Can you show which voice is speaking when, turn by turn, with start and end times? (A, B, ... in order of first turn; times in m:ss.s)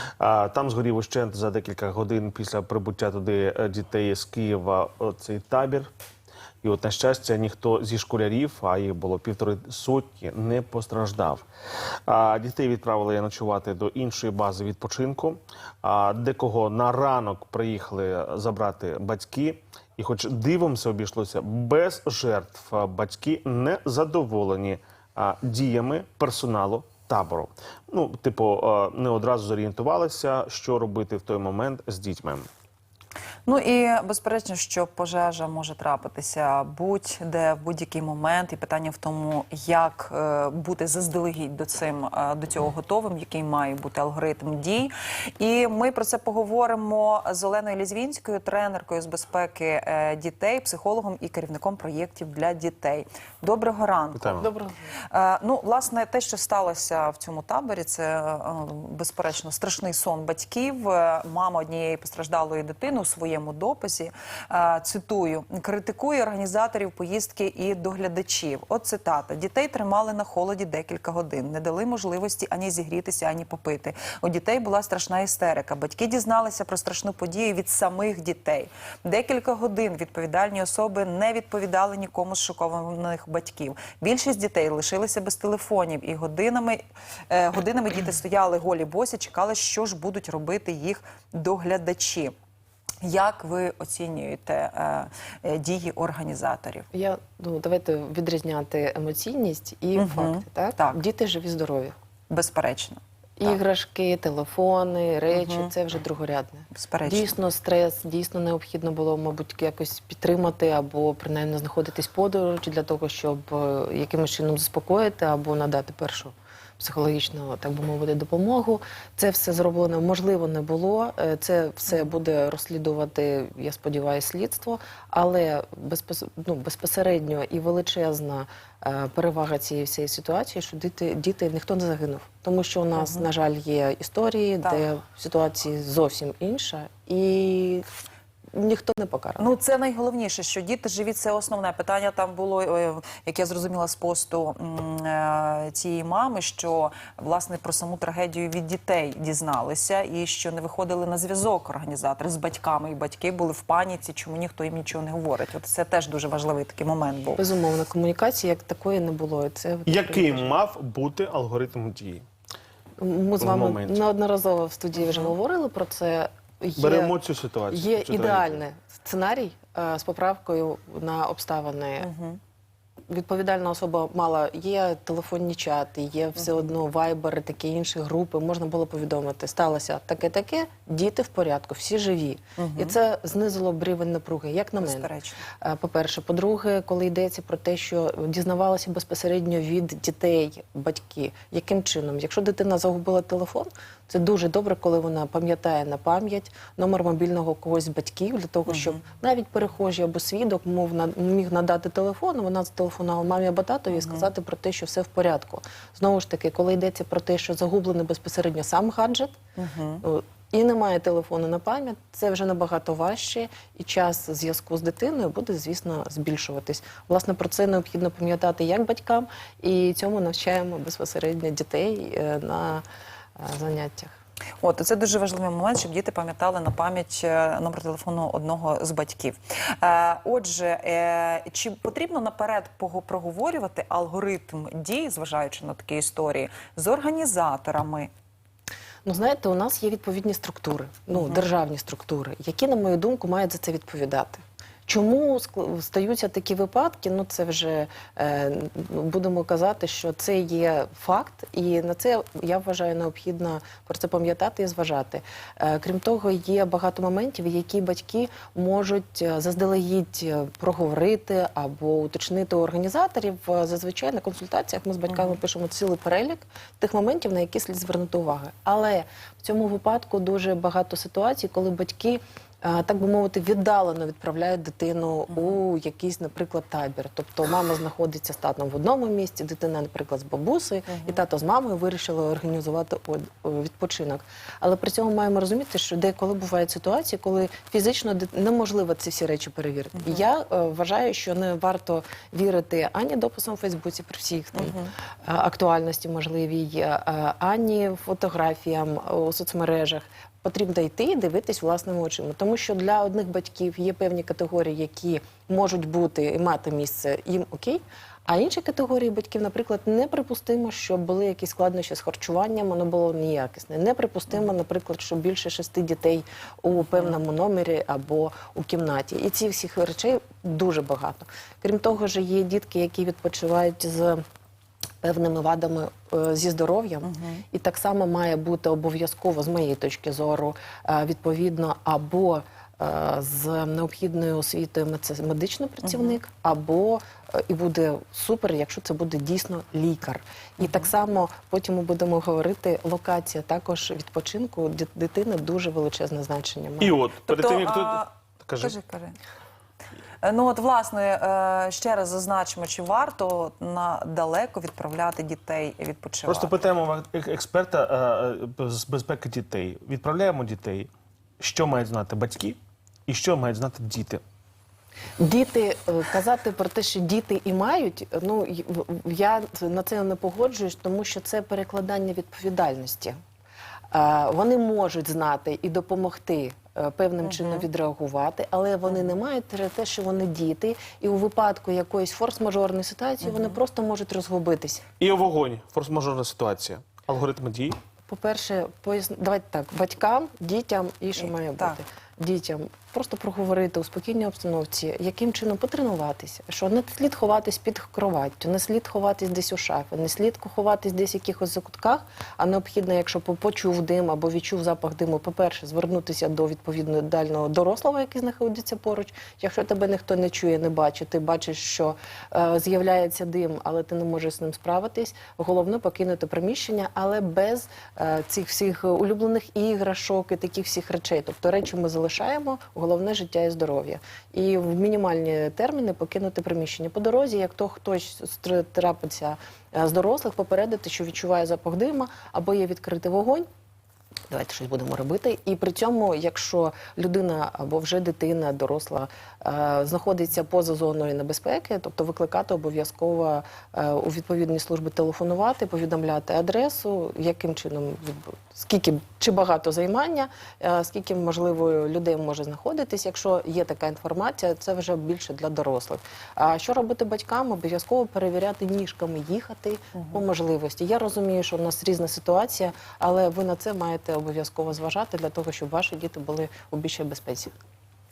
0:00.2-0:05.9 A
0:06.6-0:11.4 A
0:12.1-0:32.5 A
0:33.5-0:54.5 B
0:54.2-0:54.5 A
0:54.4-0:54.9 C
0:55.1-1:32.4 B
1:33.0-1:36.9 B
1:36.9-1:42.0 C
1:40.0-1:41.0 B
1:42.3-1:43.6 B
1:43.4-2:17.9 C
1:45.3-1:45.7 B
1:46.7-1:47.4 B
2:13.0-2:13.3 B
2:18.5-2:19.5 C
2:19.4-2:37.4 B
2:37.4-2:40.5 C
2:39.9-2:42.2 A
2:43.0-2:47.2 C
2:43.4-2:44.0 A
2:45.0-2:45.4 B
2:46.8-2:48.6 A
2:47.7-2:52.1 C
2:52.0-2:52.4 B
2:53.1-3:05.1 C
3:02.6-3:03.0 B
3:04.8-3:05.4 B
3:05.6-3:29.4 C
3:18.7-3:19.0 B
3:23.9-3:24.3 B
3:29.6-3:30.0 B
3:30.0-3:42.8 C
3:43.4-3:44.2 C
3:44.6-3:58.1 B
3:59.0-5:24.2 C
4:01.1-4:01.4 B
4:25.1-4:25.4 B
4:35.3-4:35.6 B
4:40.9-4:41.2 B
4:50.0-4:50.2 B
4:54.6-4:54.9 B
5:16.8-5:17.2 B
5:25.0-5:47.0 C
5:27.0-5:27.4 B
5:35.8-5:36.2 B
5:40.6-5:40.9 B
5:46.8-5:48.8 A
5:47.2-5:49.2 B
5:50.2-5:56.6 B
5:56.3-6:04.2 A
6:05.2-6:13.2 C
6:13.9-6:24.8 C
6:17.2-6:17.7 B
6:18.9-6:19.2 B
6:23.2-6:23.6 B
6:25.0-6:27.8 A
6:28.1-7:13.5 C
6:31.2-6:31.8 B
7:14.3-7:47.5 C
7:40.0-7:40.3 B